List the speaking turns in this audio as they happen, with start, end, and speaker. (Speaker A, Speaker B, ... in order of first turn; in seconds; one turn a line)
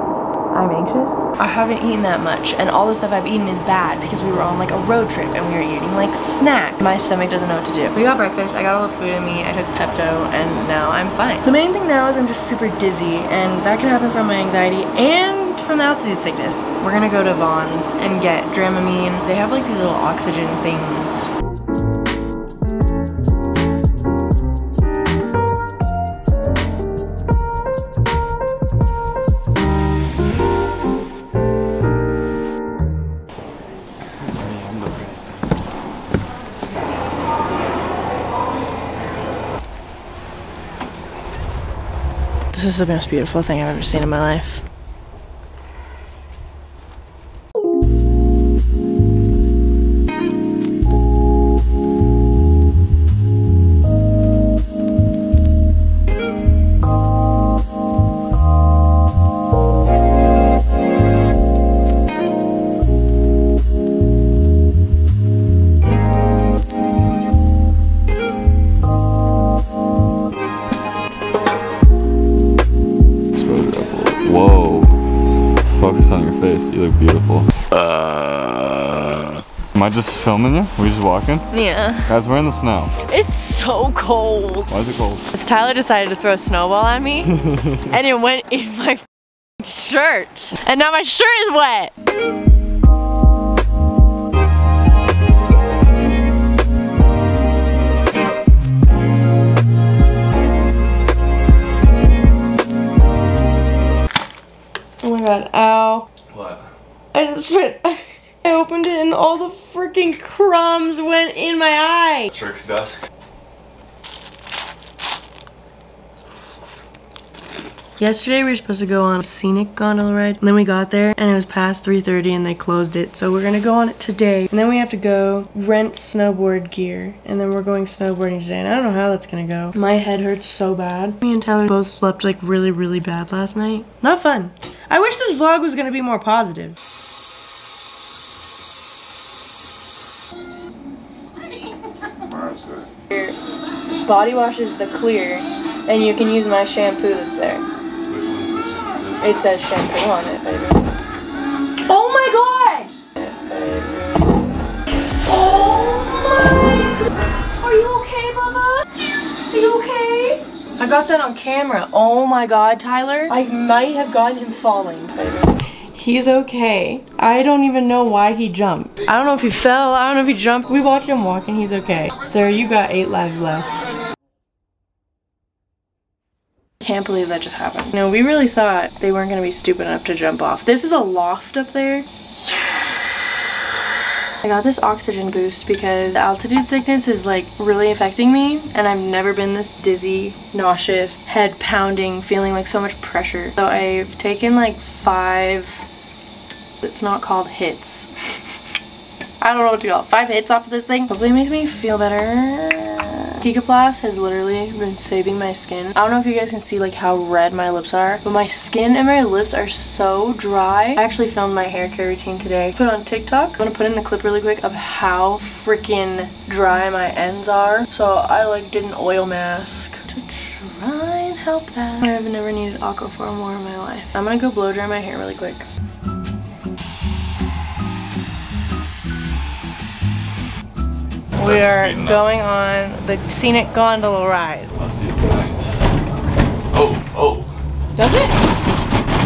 Speaker A: 0.5-21.3
Speaker B: 34.2-35.2
Speaker A: 42.5-44.6
Speaker B: 73.3-75.0
Speaker B: 75.6-81.5
Speaker A: 81.5-82.1
Speaker B: 82.1-82.9
Speaker A: 83.0-84.7
Speaker B: 84.7-85.2
Speaker A: 85.3-89.0
Speaker A: 89.6-91.9
Speaker A: 105.0-106.1
Speaker B: 106.3-106.7
Speaker A: 107.1-112.3
Speaker B: 112.3-113.0
Speaker A: 118.0-136.8
Speaker A: 143.1-143.4
Speaker A: 144.0-147.6
Speaker B: 148.1-149.2
Speaker A: 149.2-150.6
Speaker A: 151.8-153.9
Speaker A: 155.2-156.7
Speaker A: 157.6-158.9
Speaker A: 159.5-165.2
Speaker A: 165.9-173.9
Speaker A: 176.8-182.8
Speaker A: 184.4-195.8
Speaker A: 196.8-198.5
Speaker A: 199.4-225.7
Speaker B: 231.3-232.3
Speaker A: 231.3-234.7
Speaker B: 234.8-235.8
Speaker B: 236.7-237.5
Speaker A: 238.0-238.4